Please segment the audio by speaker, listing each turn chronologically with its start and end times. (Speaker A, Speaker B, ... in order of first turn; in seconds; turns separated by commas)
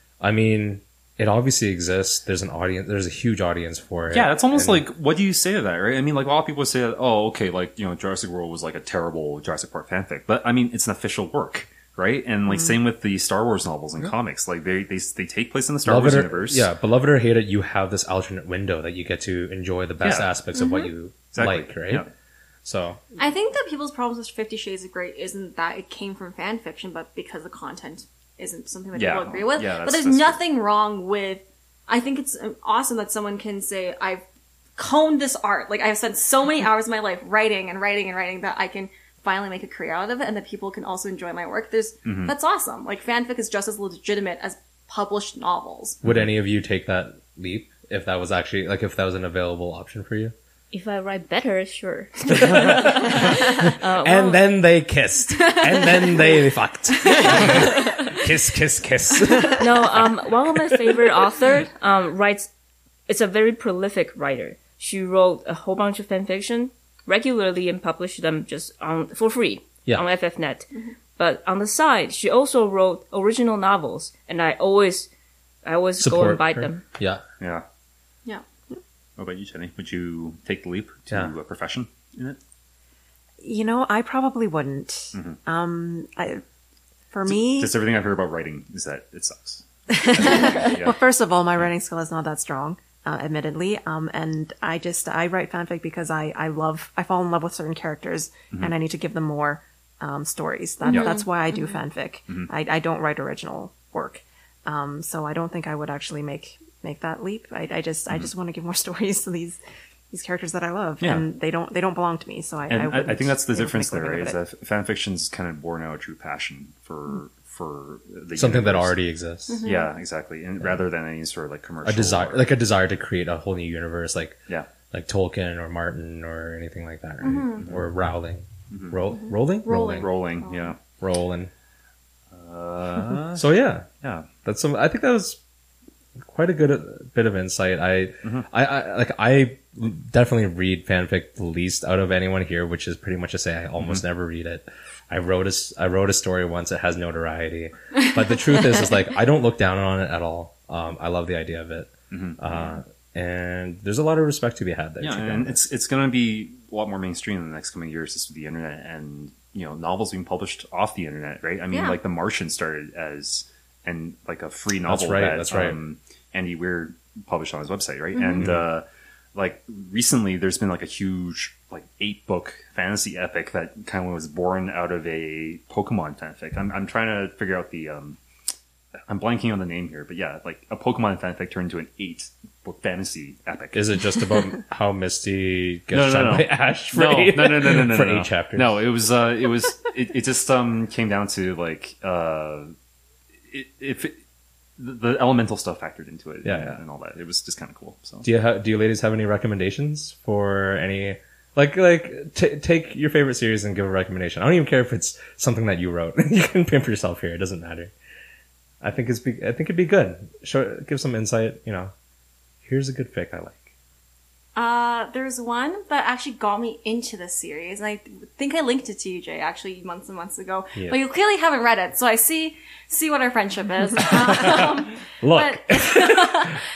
Speaker A: 0.2-4.9, Speaker B: 4.1-16.7, Speaker A: 15.8-22.1, Speaker B: 20.0-20.3, Speaker C: 20.6-20.9, Speaker B: 21.3-22.1, Speaker A: 22.6-23.0, Speaker C: 23.2-34.2, Speaker B: 28.9-30.4, Speaker C: 34.8-46.0, Speaker B: 42.0-42.3, Speaker B: 46.0-46.3, Speaker A: 46.0-50.3, Speaker D: 50.7-54.5, Speaker A: 52.3-60.8, Speaker D: 59.6-62.5, Speaker D: 63.1-75.1, Speaker D: 75.7-76.8, Speaker A: 76.0-77.2, Speaker B: 77.4-77.7, Speaker B: 79.2-82.4, Speaker E: 83.4-86.4, Speaker E: 87.1-87.8, Speaker B: 87.3-91.0, Speaker E: 89.9-109.6, Speaker C: 100.8-101.8, Speaker B: 100.9-101.2, Speaker E: 110.1-114.4, Speaker B: 111.0-111.3, Speaker B: 112.7-119.0, Speaker A: 118.3-119.6, Speaker C: 119.5-120.0, Speaker B: 119.6-122.5, Speaker A: 121.8-124.4, Speaker A: 124.9-130.1, Speaker C: 127.2-127.7, Speaker B: 127.6-127.8, Speaker B: 128.7-129.0, Speaker C: 129.1-130.8, Speaker B: 129.9-130.8, Speaker A: 131.0-131.5, Speaker B: 132.3-134.3, Speaker A: 133.3-133.9, Speaker A: 134.4-135.4, Speaker A: 136.2-155.6, Speaker B: 143.8-144.0, Speaker B: 152.1-152.8, Speaker B: 155.0-178.2, Speaker C: 161.7-162.0, Speaker A: 164.8-165.8, Speaker C: 168.2-168.5, Speaker B: 179.1-184.0, Speaker A: 183.7-188.8, Speaker B: 185.9-192.7, Speaker B: 193.5-194.2, Speaker B: 194.8-198.3, Speaker A: 196.4-196.8, Speaker A: 198.2-207.9, Speaker A: 208.8-211.9, Speaker A: 212.6-213.7, Speaker C: 214.6-226.6, Speaker A: 224.3-224.7, Speaker A: 225.2-226.6